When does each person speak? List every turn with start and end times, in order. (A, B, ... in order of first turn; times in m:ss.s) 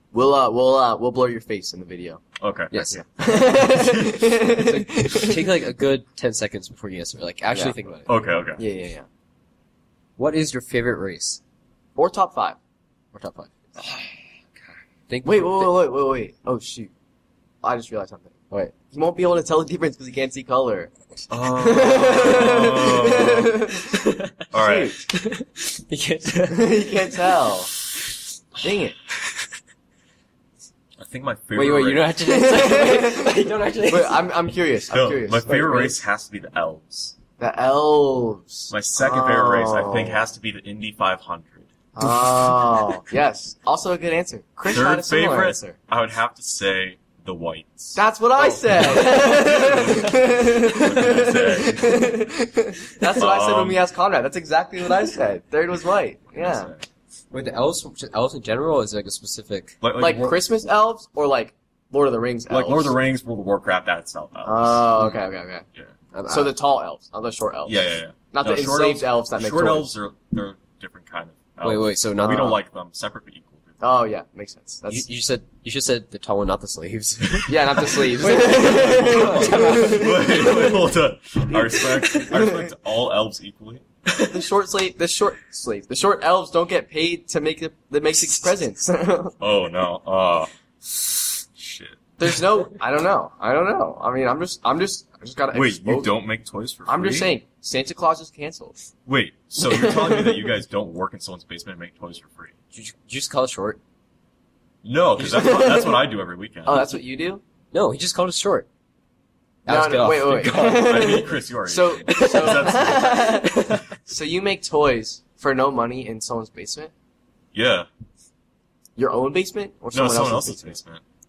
0:00.1-0:02.2 A
0:02.4-0:04.4 B
0:02.7-0:03.0 C
0:03.1-0:05.5 A
0:04.4-0:08.1 C
0:08.0-0:08.6 B
0:08.6-0:09.0 A
0:10.2-0:11.4 C
0:12.0-0:12.6 A
0:13.1-0:13.5 C
0:15.1-0:15.7 C
0:15.2-0:16.9 A
0:17.6-0:20.9 A
0:21.3-0:23.7 B
0:21.6-0:23.9 A
0:23.8-0:27.5 C
0:24.5-0:24.9 B
0:24.5-0:24.9 A
0:26.5-0:27.7 A
0:28.6-0:29.0 A
0:31.0-0:32.1 B
0:31.5-0:34.2 C
0:32.2-0:36.0 A
0:34.9-0:37.2 B
0:37.4-0:40.2 A
0:38.7-0:41.7 B
0:42.0-0:45.8 A
0:44.6-0:52.2 B
0:47.9-0:56.7 A
0:53.2-0:53.8 B
0:56.3-0:56.8 B
0:57.3-0:59.8 C
0:59.8-1:00.4 B
1:00.0-1:02.9 A
1:02.5-1:04.9 B
1:04.4-1:05.6 A
1:06.1-1:06.5 C
1:06.3-1:07.8 A
1:07.6-1:13.7 B
1:08.3-1:09.9 A
1:11.6-1:12.6 C
1:12.2-1:12.6 A
1:13.8-1:15.1 A
1:14.9-1:20.4 C
1:17.5-1:20.8 A
1:18.2-1:23.8 B
1:21.6-1:22.7 A
1:24.2-1:29.4 A
1:29.4-1:32.1 B
1:32.2-1:36.1 A
1:35.5-1:37.3 B
1:36.9-1:38.8 A
1:39.0-1:42.5 B
1:39.6-1:40.5 A
1:42.7-1:43.8 C
1:44.8-1:46.9 B
1:45.2-1:46.0 A
1:46.6-1:47.4 A
1:47.7-1:48.7 C
1:49.6-1:51.2 C
1:49.7-1:56.9 A
1:50.4-1:53.5 B
1:52.1-1:53.8 C
1:57.5-1:57.9 B
1:59.0-2:00.8 A
1:59.9-2:01.0 B